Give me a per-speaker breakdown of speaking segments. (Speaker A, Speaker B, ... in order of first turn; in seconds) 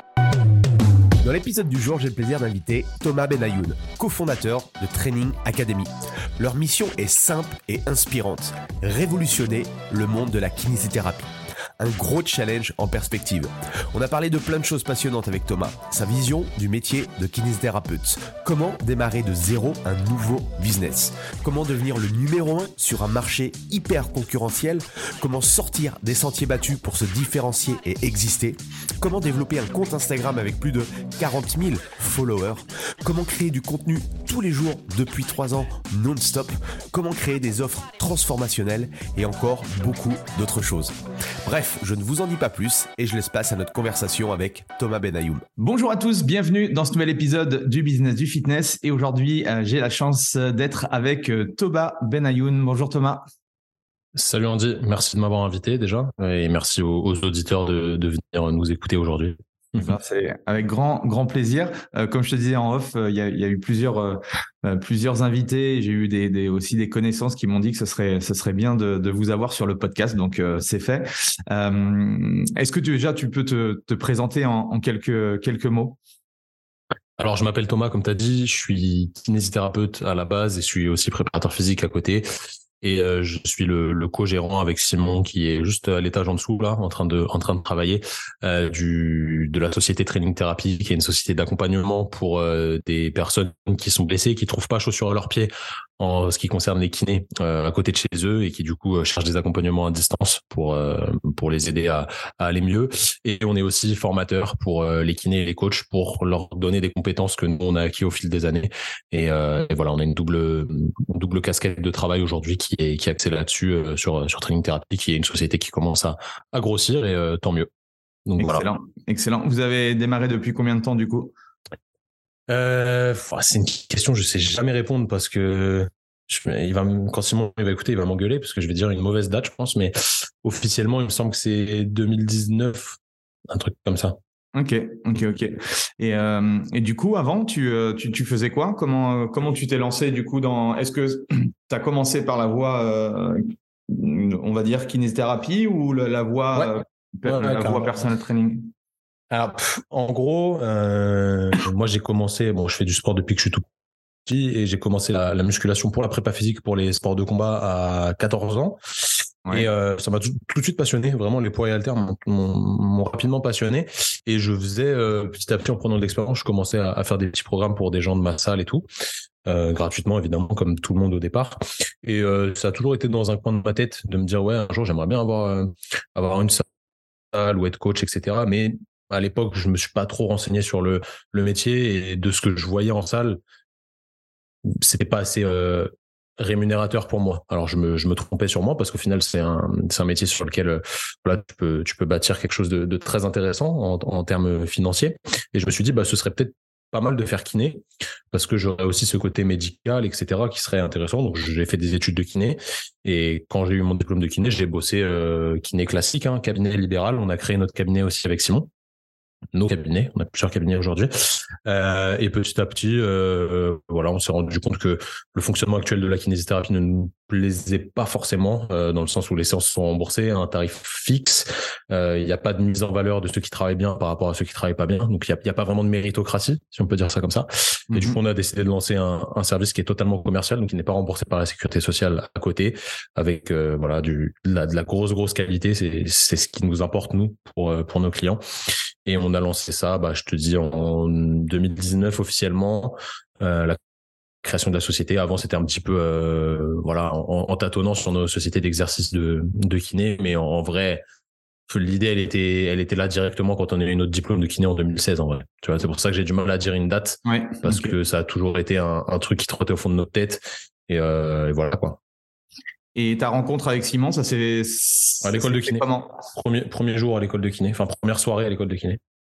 Speaker A: 1.2-45.5
Speaker B: 45.6-53.2, 59.8-76.0, 118.4-121.3, 134.5-148.7, 227.9-228.2, 257.3-257.9, 262.9-266.2
Speaker C: 54.1-59.9, 77.2-82.3, 82.8-117.7, 118.3-118.7, 122.5-133.0, 133.5-134.2, 147.2-148.0, 149.3-153.7, 154.3-158.8, 159.5-168.8, 169.5-176.6, 177.3-183.4, 184.7-208.7, 209.5-238.4, 239.1-243.8, 244.4-251.0, 251.7-262.0, 265.2-269.0